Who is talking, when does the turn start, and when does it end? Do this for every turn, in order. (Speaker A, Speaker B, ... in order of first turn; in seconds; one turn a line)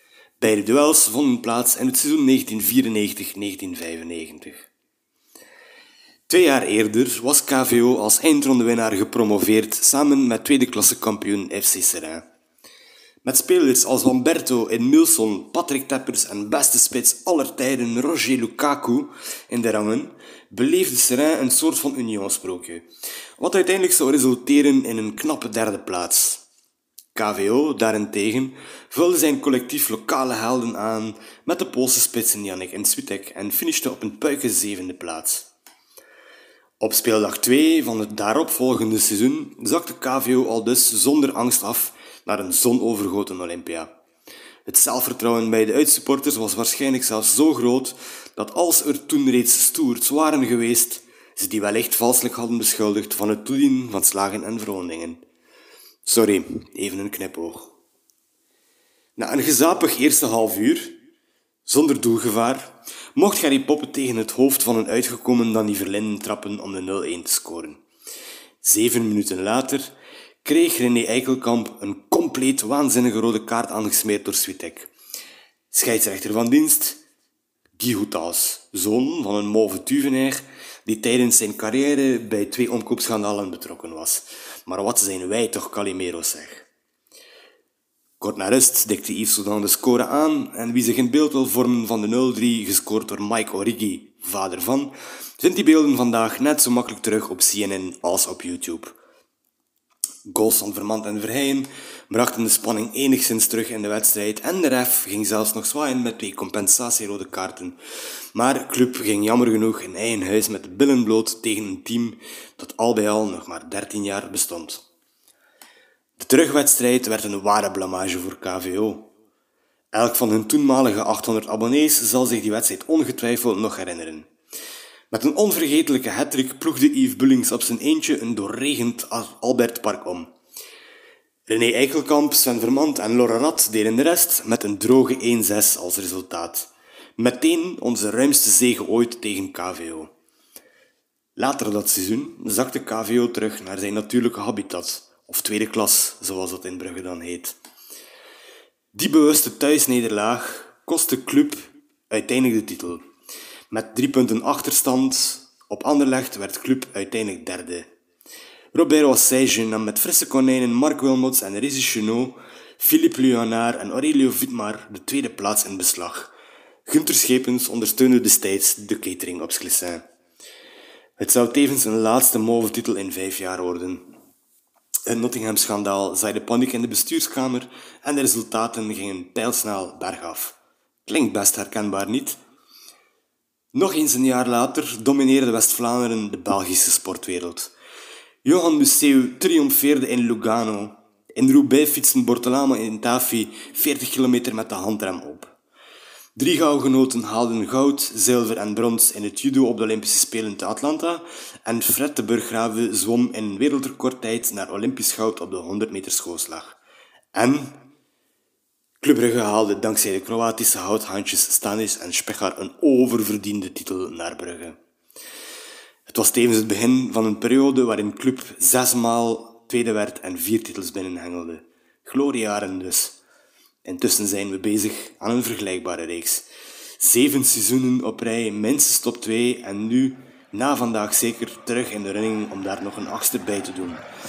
Speaker A: 0.4-4.7
Speaker A: 6.3-12.3
Speaker A: 13.2-26.4
Speaker A: 27.1-35.5
Speaker A: 36.8-44.0
Speaker A: 44.7-55.2
Speaker A: 56.0-57.8
Speaker A: 59.2-61.0
Speaker A: 61.7-67.8
Speaker A: 68.6-74.9
Speaker A: 75.7-77.0
Speaker A: 77.8-86.7
Speaker A: 88.2-99.0
Speaker A: 100.3-107.8
Speaker A: 108.3-114.9
Speaker A: 116.2-119.1
Speaker A: 119.9-124.3
Speaker A: 125.1-130.3
Speaker A: 131.5-140.1
Speaker A: 141.4-147.6
Speaker A: 148.9-153.1
Speaker A: 153.7-157.9
Speaker A: 158.7-166.3
Speaker A: 166.9-170.1
Speaker A: 171.2-174.1
Speaker A: 175.1-182.4
Speaker A: 183.7-187.7
Speaker A: 188.4-195.5
Speaker A: 196.4-206.8
Speaker A: 207.3-207.8
Speaker A: 209.0-214.8
Speaker A: 216.1-223.2
Speaker A: 223.8-226.5
Speaker A: 227.0-234.0